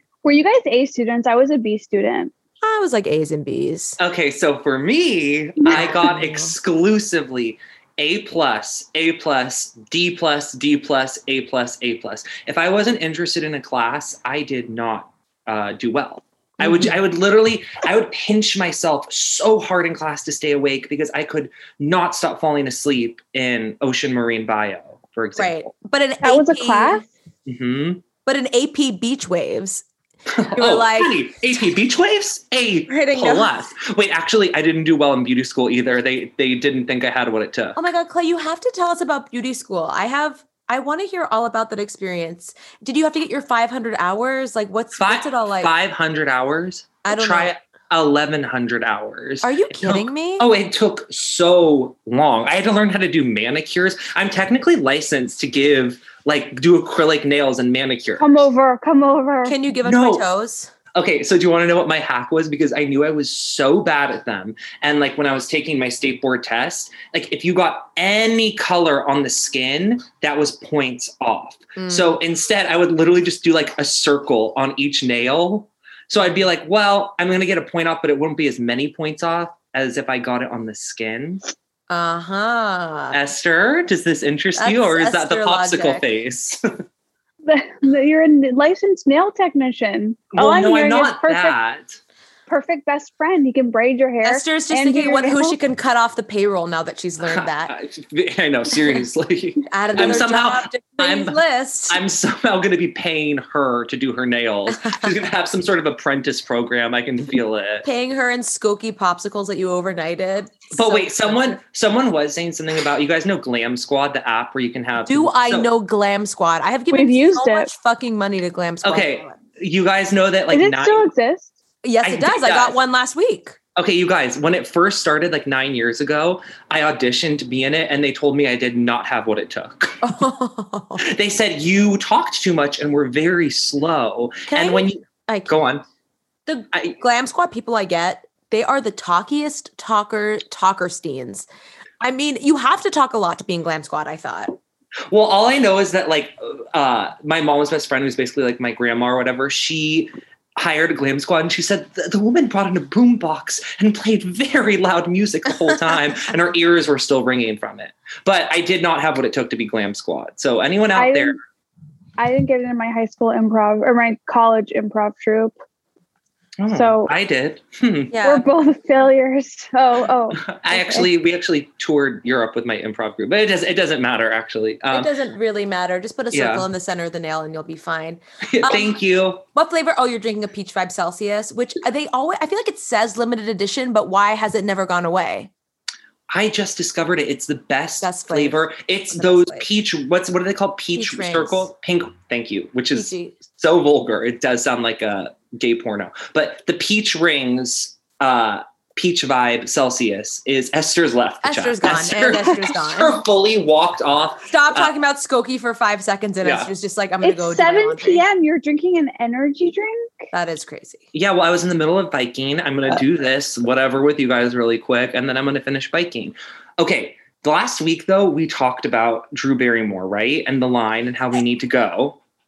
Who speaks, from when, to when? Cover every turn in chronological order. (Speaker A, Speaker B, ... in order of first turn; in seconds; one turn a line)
Speaker A: 0.2-2.3
Speaker B: 2.6-4.0
Speaker C: 4.0-25.7
Speaker A: 5.6-5.9
Speaker B: 5.7-6.5
Speaker B: 16.6-16.9
Speaker B: 25.4-27.1
Speaker A: 26.2-27.0
Speaker C: 27.4-28.0
Speaker B: 28.2-29.8
Speaker C: 30.3-37.8
Speaker B: 30.5-31.2
Speaker B: 32.9-33.6
Speaker B: 37.7-45.7
Speaker C: 45.0-58.5
Speaker B: 47.0-47.5
Speaker B: 49.4-50.5
Speaker A: 58.2-59.5
Speaker B: 59.4-60.7
Speaker C: 59.8-60.2
Speaker C: 60.9-81.5
Speaker B: 71.8-72.2
Speaker B: 81.9-83.2
Speaker C: 83.1-86.6
Speaker B: 84.5-86.0
Speaker A: 87.4-91.5
Speaker C: 90.3-92.0
Speaker A: 92.5-95.5
Speaker B: 94.2-97.7
Speaker C: 97.2-107.8
Speaker B: 99.7-102.0
Speaker B: 107.8-111.6
Speaker C: 110.7-115.7
Speaker B: 115.0-119.3
Speaker A: 116.9-117.7
Speaker C: 118.8-121.0
Speaker A: 120.5-121.5
Speaker B: 121.8-123.6
Speaker C: 122.0-122.8
Speaker C: 123.8-130.0
Speaker B: 130.0-131.0
Speaker C: 131.0-135.8
Speaker B: 134.5-135.5
Speaker B: 136.4-141.5
Speaker C: 136.7-137.0
Speaker B: 142.0-144.6
Speaker C: 145.1-161.4
Speaker A: 160.9-161.3
Speaker A: 162.2-165.5
Speaker C: 166.6-168.2
Speaker A: 166.7-167.1
Speaker B: 168.1-168.5
Speaker A: 168.2-170.4
Speaker C: 170.4-175.1
Speaker B: 170.7-171.1
Speaker B: 174.9-185.5
Speaker C: 176.3-176.7
Speaker C: 178.4-179.4
Speaker C: 186.3-204.9
Speaker B: 188.0-189.7
Speaker B: 190.9-191.7
Speaker B: 192.9-193.4
Speaker B: 201.4-203.2
Speaker B: 204.5-208.2
Speaker C: 206.4-206.7
Speaker A: 207.2-210.3
Speaker B: 210.3-211.1
Speaker C: 211.1-222.2